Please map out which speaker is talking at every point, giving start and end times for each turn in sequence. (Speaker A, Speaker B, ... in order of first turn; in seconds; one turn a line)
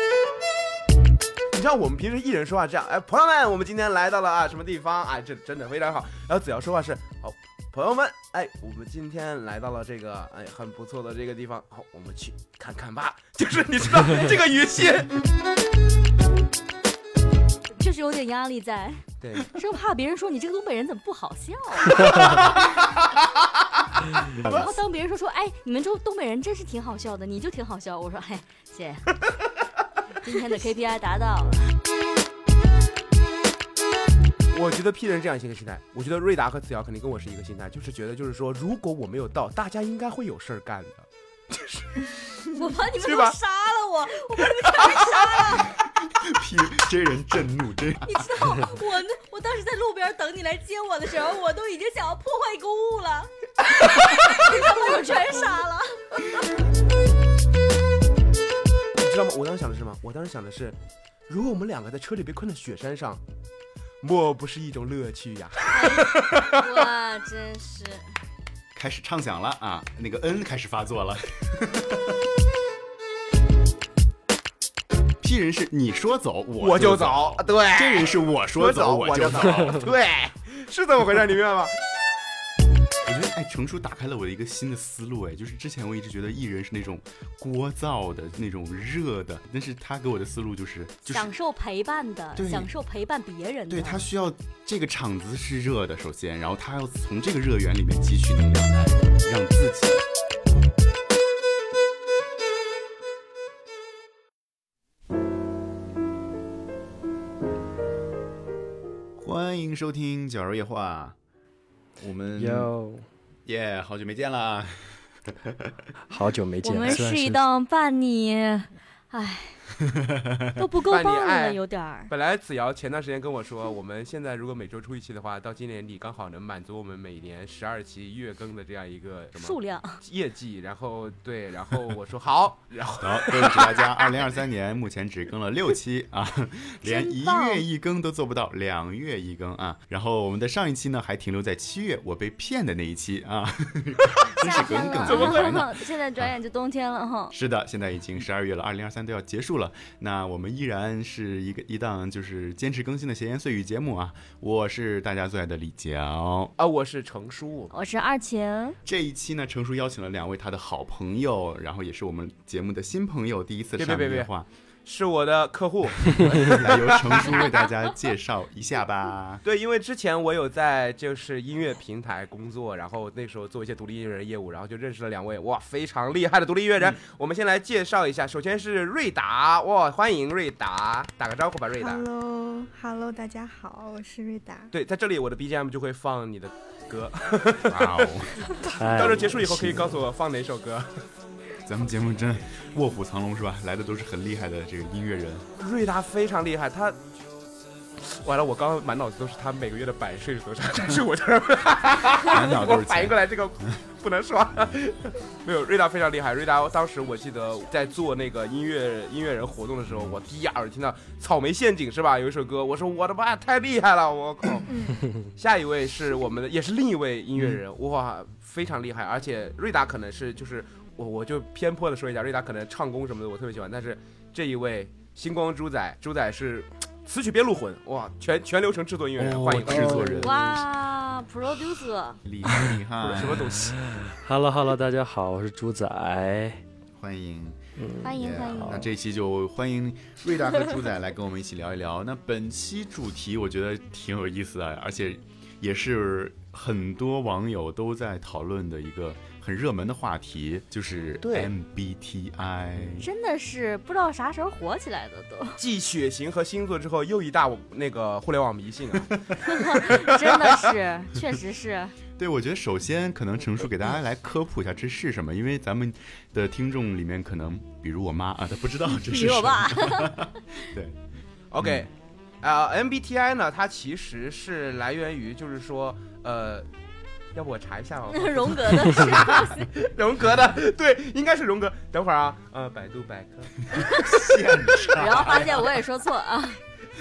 Speaker A: 1.5-15.1
Speaker B: 17.8-22.5
Speaker A: 19.2-19.5
Speaker A: 22.0-22.9
Speaker B: 24.4-29.1
Speaker B: 30.2-31.6
Speaker A: 34.5-42.1
Speaker B: 42.5-45.7
Speaker A: 43.0-43.3
Speaker A: 44.6-45.3
Speaker C: 45.8-48.4
Speaker B: 48.0-56.3
Speaker A: 59.0-60.8
Speaker A: 61.3-63.2
Speaker A: 64.0-66.6
Speaker B: 65.7-68.0
Speaker C: 68.7-72.2
Speaker C: 75.2-79.9
Speaker A: 76.6-81.7
Speaker C: 83.0-91.3
Speaker B: 91.1-94.0
Speaker C: 92.3-92.7
Speaker C: 93.7-100.0
Speaker C: 109.2-111.2
Speaker C: 112.0-112.7
Speaker D: 112.3-113.0
Speaker C: 113.5-115.7
Speaker D: 116.1-117.4
Speaker B: 116.6-119.6
Speaker B: 120.5-122.1
Speaker A: 120.9-134.0
Speaker B: 129.4-130.0
Speaker C: 133.0-146.3
Speaker B: 136.8-137.6
Speaker B: 144.4-147.3
Speaker A: 145.0-145.7
Speaker C: 147.3-156.5
Speaker A: 156.6-157.7
Speaker B: 157.7-158.8
Speaker C: 158.8-164.5
Speaker A: 163.8-164.3
Speaker A: 164.8-167.4
Speaker C: 166.2-169.4
Speaker B: 167.3-167.8
Speaker A: 169.4-182.0
Speaker E: 181.7-184.7
Speaker A: 184.7-188.1
Speaker C: 187.6-188.3
Speaker D: 188.7-190.0
Speaker A: 188.9-191.0
Speaker C: 191.7-195.4
Speaker A: 195.6-197.0
Speaker A: 198.0-214.7
Speaker C: 202.2-203.7
Speaker E: 214.7-215.0
Speaker A: 215.3-230.2
Speaker C: 229.2-230.5
Speaker D: 229.4-230.4
Speaker B: 230.2-232.2
Speaker C: 232.2-233.7
Speaker A: 233.0-233.8
Speaker D: 233.9-236.6
Speaker C: 236.9-253.1
Speaker D: 237.8-238.8
Speaker A: 251.2-251.5
Speaker B: 253.0-255.6
Speaker A: 255.6-259.1
Speaker B: 259.5-261.9
Speaker A: 259.7-260.5
Speaker C: 262.2-271.0
Speaker B: 269.0-270.3
Speaker A: 271.5-271.9
Speaker C: 271.6-271.9
Speaker A: 272.4-276.7
Speaker A: 277.3-283.6
Speaker B: 278.1-279.7
Speaker C: 283.7-285.7
Speaker B: 283.8-284.2
Speaker B: 284.8-286.6
Speaker A: 284.8-285.6